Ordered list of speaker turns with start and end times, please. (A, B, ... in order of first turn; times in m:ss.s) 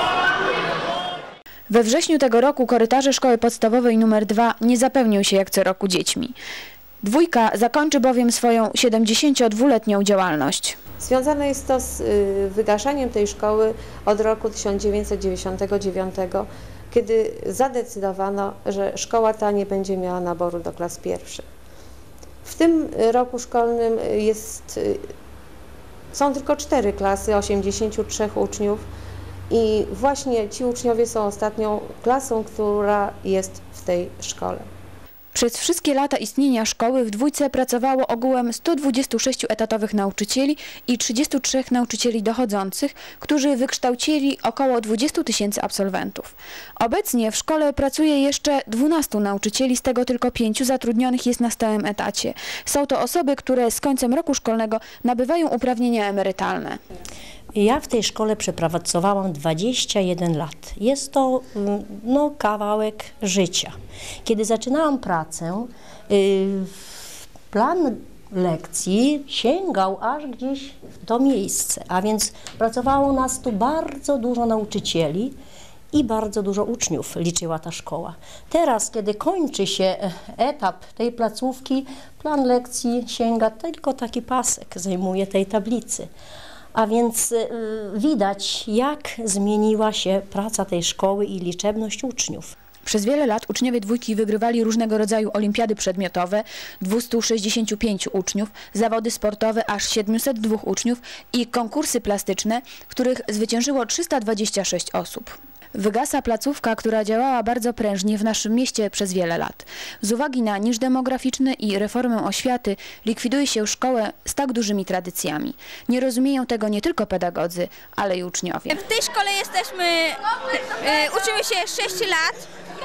0:01.7-0:06.4 A
0:07.0-0:10.8 A
0:11.0-0:21.4 B
0:22.4-0:25.0 B
0:26.1-0:28.8 B
0:29.5-0:34.6 B
0:35.3-0:56.8 A
0:57.5-1:15.4 C
1:15.9-1:26.1 C
1:26.7-1:32.5 C
1:32.8-1:58.8 A
1:58.7-2:02.5 D